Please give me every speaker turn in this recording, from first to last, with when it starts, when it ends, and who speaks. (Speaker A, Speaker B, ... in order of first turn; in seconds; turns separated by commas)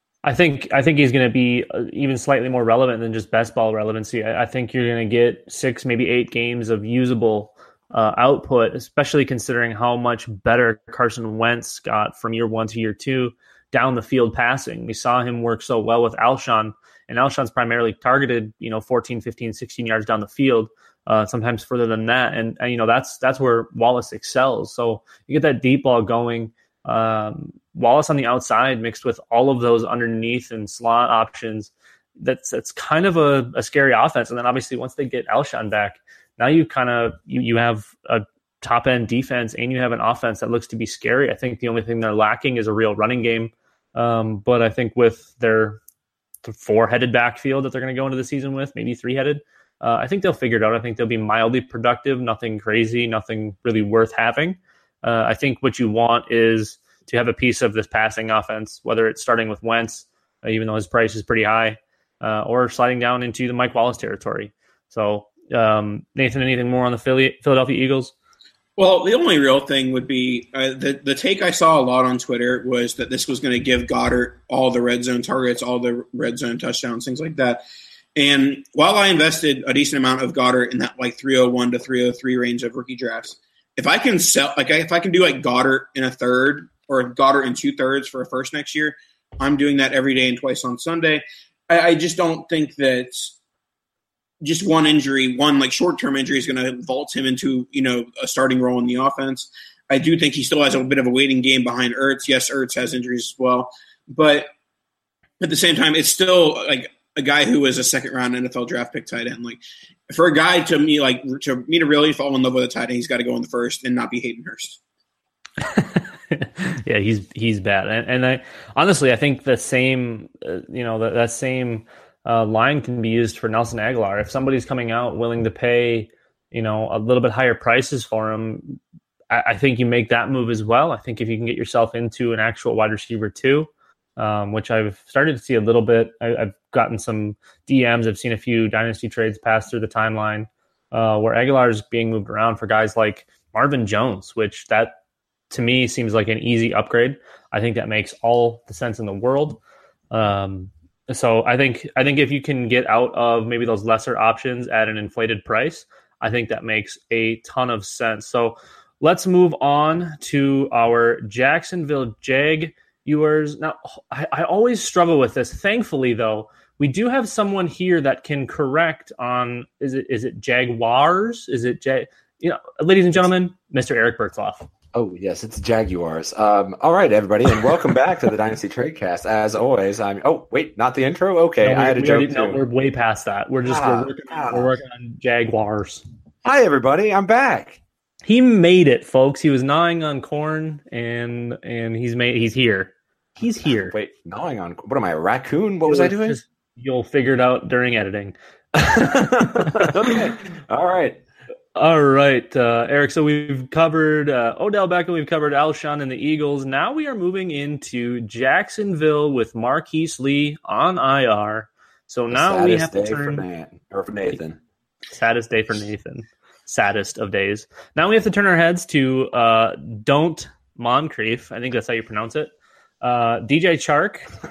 Speaker A: 0.2-45.8, Speaker A: 46.4-68.1, Speaker B: 68.8-77.6, Speaker B: 78.2-93.3, Speaker B: 94.4-104.5, Speaker B: 105.4-114.8, Speaker A: 115.6-128.8, Speaker A: 129.3-144.9, Speaker A: 145.5-149.6, Speaker A: 150.1-174.7, Speaker C: 174.9-182.6, Speaker A: 181.6-186.0, Speaker C: 183.7-184.7, Speaker C: 186.4-187.8, Speaker A: 188.2-193.9, Speaker C: 193.8-196.4, Speaker A: 195.8-198.3, Speaker C: 198.7-201.2, Speaker A: 201.8-213.4, Speaker C: 212.3-214.6, Speaker A: 215.1-224.3